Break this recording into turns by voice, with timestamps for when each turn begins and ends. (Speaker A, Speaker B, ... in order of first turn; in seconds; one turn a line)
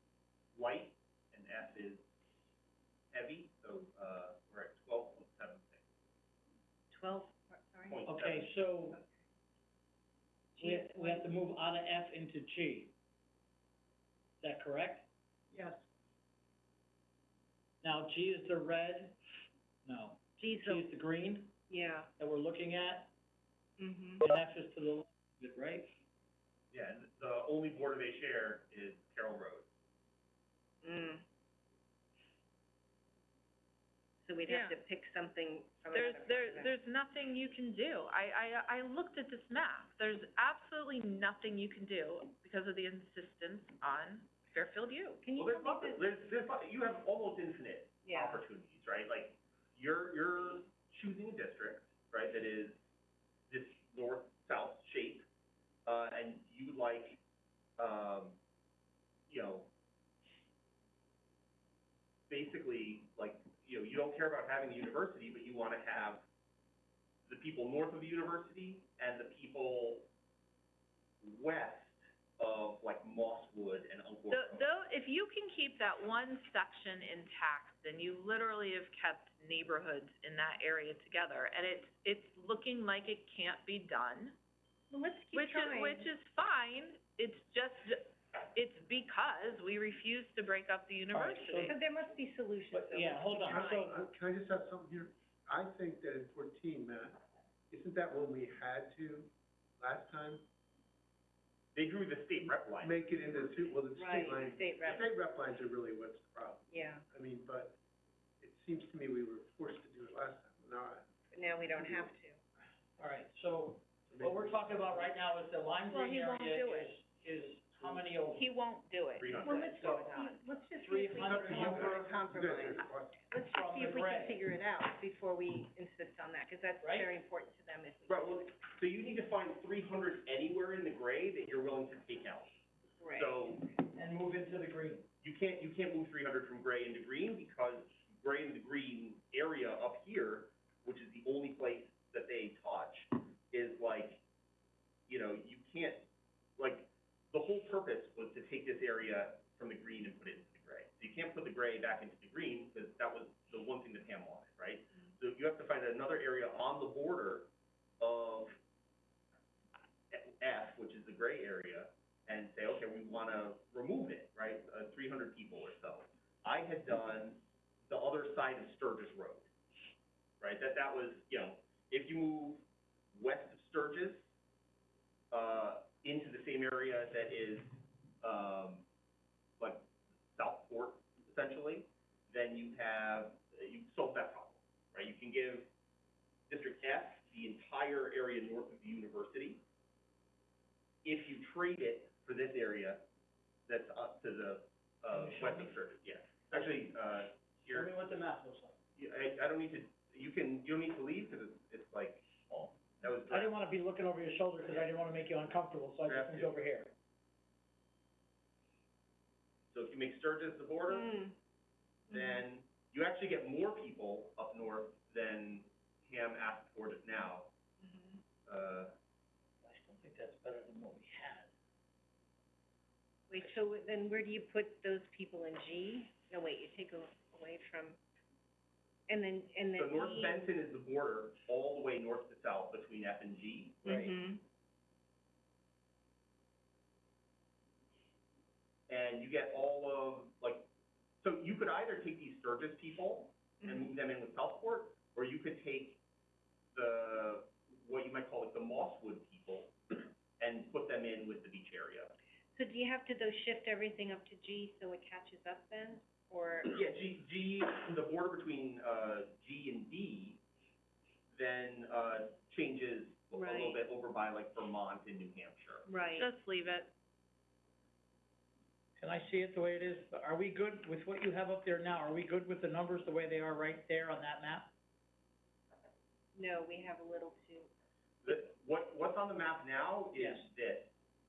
Speaker A: 0.5-2.0
Speaker A: 3.1-5.8
Speaker B: 7.3-7.9
Speaker A: 7.9-8.5
Speaker C: 8.0-9.0
Speaker B: 10.6-11.2
Speaker C: 10.6-12.9
Speaker C: 14.4-15.1
Speaker C: 17.8-19.2
Speaker C: 19.9-21.5
Speaker B: 20.4-20.8
Speaker B: 21.7-22.1
Speaker C: 22.2-23.1
Speaker B: 23.8-24.2
Speaker C: 24.2-25.9
Speaker A: 26.7-29.7
Speaker B: 30.8-31.2
Speaker B: 34.3-36.7
Speaker D: 34.5-34.8
Speaker D: 35.9-45.2
Speaker B: 45.3-45.8
Speaker A: 45.4-52.8
Speaker B: 48.1-48.4
Speaker A: 53.5-55.3
Speaker A: 55.9-57.2
Speaker A: 57.8-58.4
Speaker A: 59.3-59.7
Speaker A: 62.3-66.2
Speaker A: 67.3-70.1
Speaker A: 71.2-74.7
Speaker D: 74.3-84.4
Speaker B: 84.9-86.1
Speaker D: 85.3-91.7
Speaker C: 91.1-91.8
Speaker B: 91.8-93.8
Speaker C: 92.7-94.0
Speaker E: 93.3-100.5
Speaker A: 101.8-103.6
Speaker E: 102.8-107.8
Speaker B: 104.0-105.0
Speaker B: 106.7-107.0
Speaker E: 108.4-111.1
Speaker B: 111.3-112.4
Speaker C: 113.0-118.5
Speaker E: 114.1-115.0
Speaker D: 115.9-117.0
Speaker D: 118.3-120.3
Speaker A: 119.2-119.6
Speaker B: 119.5-128.3
Speaker C: 120.8-122.1
Speaker E: 121.2-123.2
Speaker C: 123.4-124.5
Speaker C: 126.8-127.2
Speaker A: 128.1-132.5
Speaker A: 133.2-133.7
Speaker C: 133.9-135.1
Speaker A: 135.2-144.2
Speaker A: 145.1-158.6
Speaker A: 160.1-169.5
Speaker A: 170.4-174.2
Speaker A: 175.3-178.9
Speaker A: 179.6-185.7
Speaker A: 186.5-189.6
Speaker A: 191.0-193.1
Speaker A: 193.7-197.9
Speaker C: 195.1-195.7
Speaker C: 197.7-198.8
Speaker A: 199.0-203.5
Speaker C: 203.3-206.9
Speaker A: 206.1-206.6
Speaker A: 209.7-211.2
Speaker A: 212.1-217.5
Speaker A: 218.4-218.9
Speaker C: 219.7-221.5
Speaker B: 223.3-226.3
Speaker C: 223.3-223.6
Speaker B: 226.9-228.0
Speaker B: 229.1-230.3
Speaker A: 229.8-234.1
Speaker B: 233.8-234.4
Speaker A: 238.9-240.7
Speaker A: 241.2-246.0
Speaker A: 246.7-252.1
Speaker B: 252.8-253.1
Speaker B: 253.8-256.7
Speaker A: 256.7-260.4
Speaker A: 261.3-265.9
Speaker B: 263.3-263.8
Speaker B: 265.9-266.2
Speaker D: 266.2-266.9
Speaker C: 269.0-274.7
Speaker B: 276.8-277.7
Speaker A: 278.2-280.9
Speaker C: 280.1-280.5